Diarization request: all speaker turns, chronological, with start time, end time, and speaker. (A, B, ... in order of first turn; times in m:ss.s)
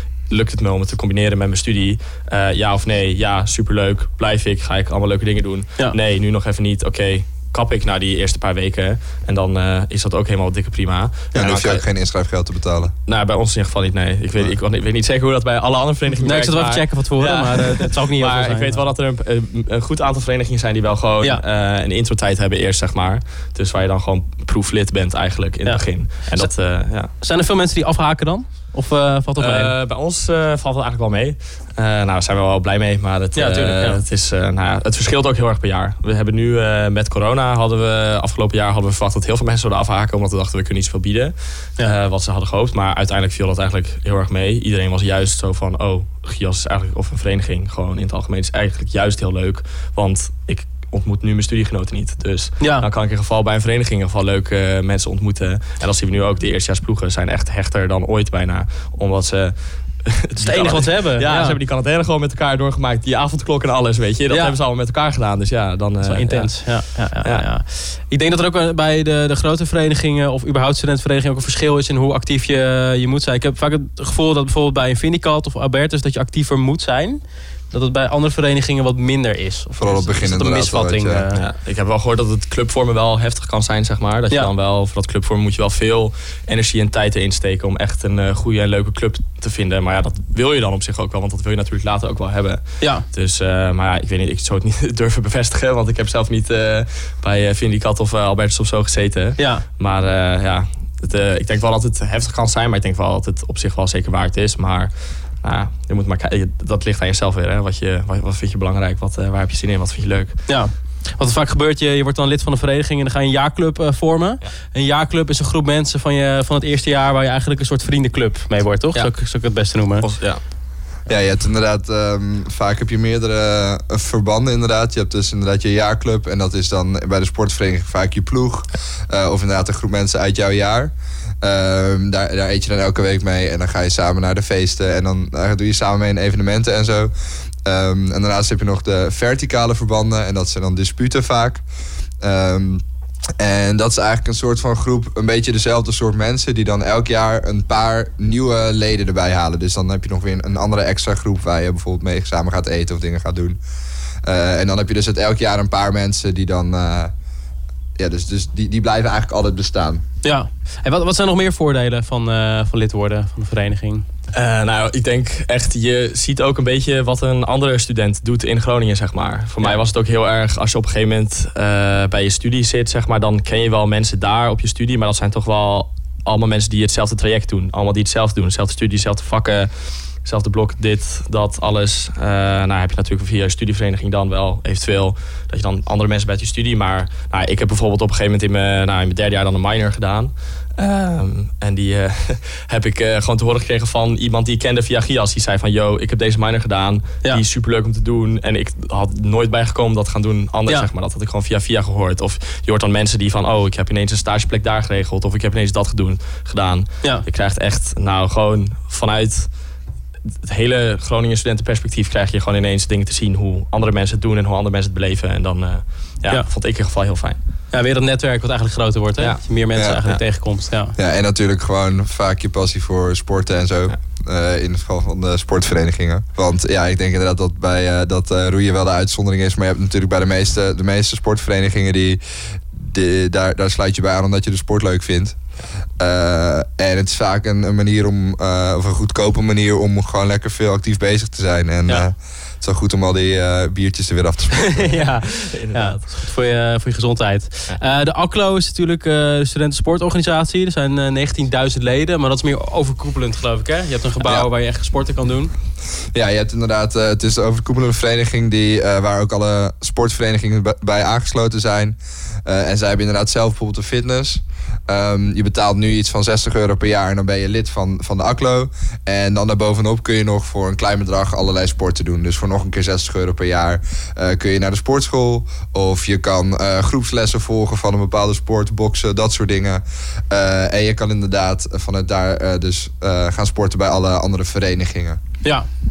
0:00.3-0:11.8 A
0:11.3-0:12.9 B
0:13.0-0:27.1 A
0:16.2-0:18.8 C
0:25.6-0:26.5 C
0:27.1-0:29.7 C
0:29.4-1:07.5 A
0:33.3-0:34.0 C
0:52.6-0:52.8 C
1:00.4-1:01.6 C
1:04.3-1:04.5 C
1:06.0-1:21.4 C
1:19.8-1:21.2 B
1:21.3-1:50.4 A
1:39.4-1:39.6 C
1:50.5-2:00.1 C
1:58.9-1:59.3 A
2:00.0-2:00.4 A
2:01.1-2:17.1 B
2:17.6-2:21.6 B
2:22.2-2:22.8 B
2:23.4-2:33.6 B
2:34.2-2:37.1 B
2:38.0-2:40.0 B
2:40.2-2:44.0 C
2:44.3-3:29.5 A
3:30.4-3:37.4 A
3:37.7-3:40.9 C
3:39.2-3:40.2 A
3:39.8-3:40.0 B
3:40.9-3:55.4 B
3:56.0-4:05.0 B
4:04.7-4:15.5 C
4:05.3-4:06.1 A
4:14.2-4:14.4 B
4:16.1-4:45.2 B